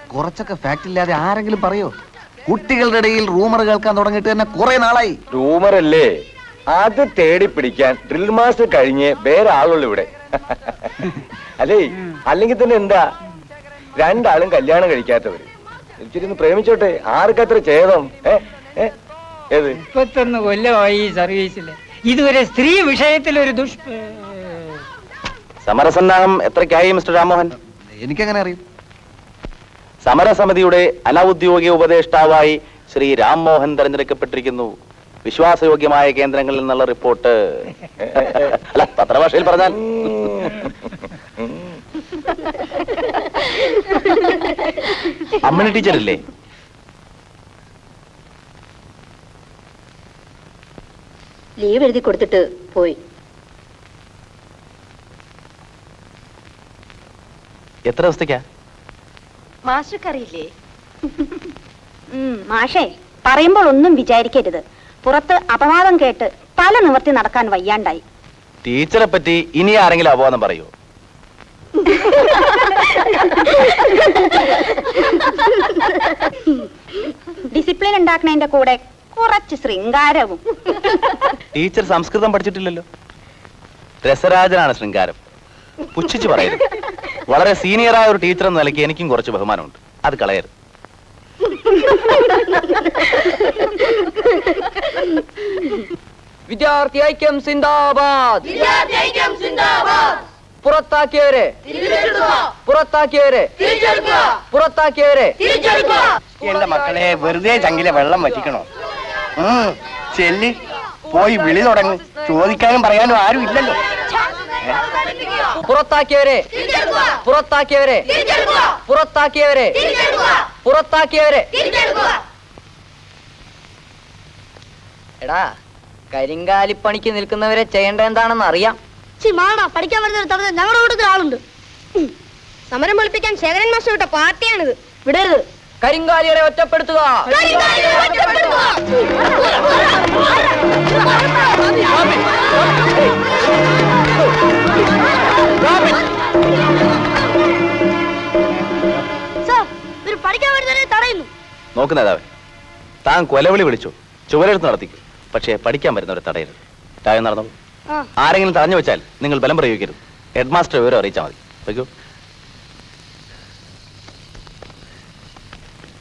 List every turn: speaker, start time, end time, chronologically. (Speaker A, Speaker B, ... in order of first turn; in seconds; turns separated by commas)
Speaker A: 0.1-1.9, Speaker A: 2.5-5.2, Speaker B: 5.3-6.1, Speaker B: 6.7-10.9, Speaker B: 11.6-13.0, Speaker B: 14.0-15.5, Speaker B: 16.0-18.9, Speaker B: 19.5-19.8, Speaker C: 19.9-24.3, Speaker D: 25.6-27.5, Speaker A: 27.9-28.6, Speaker D: 30.0-34.7, Speaker D: 35.3-39.9, Speaker B: 40.1-40.7, Speaker D: 45.4-46.2, Speaker E: 52.1-52.6, Speaker D: 57.9-58.4, Speaker E: 62.1-68.0, Speaker D: 68.6-70.7, Speaker E: 71.9-74.3, Speaker E: 77.5-81.3, Speaker D: 81.5-82.8, Speaker D: 84.0-85.2, Speaker D: 85.9-86.6, Speaker D: 87.3-90.5, Speaker F: 96.5-98.7, Speaker F: 100.6-101.6, Speaker F: 102.4-103.6, Speaker F: 104.4-105.4, Speaker G: 106.4-108.7, Speaker G: 109.4-113.8, Speaker F: 115.6-121.5, Speaker F: 125.2-125.5, Speaker F: 126.1-128.8, Speaker H: 129.2-131.4, Speaker H: 132.7-135.4, Speaker F: 135.8-137.3, Speaker H: 137.3-138.7, Speaker H: 149.4-151.3, Speaker D: 151.8-152.3, Speaker D: 153.1-157.5, Speaker D: 158.2-161.9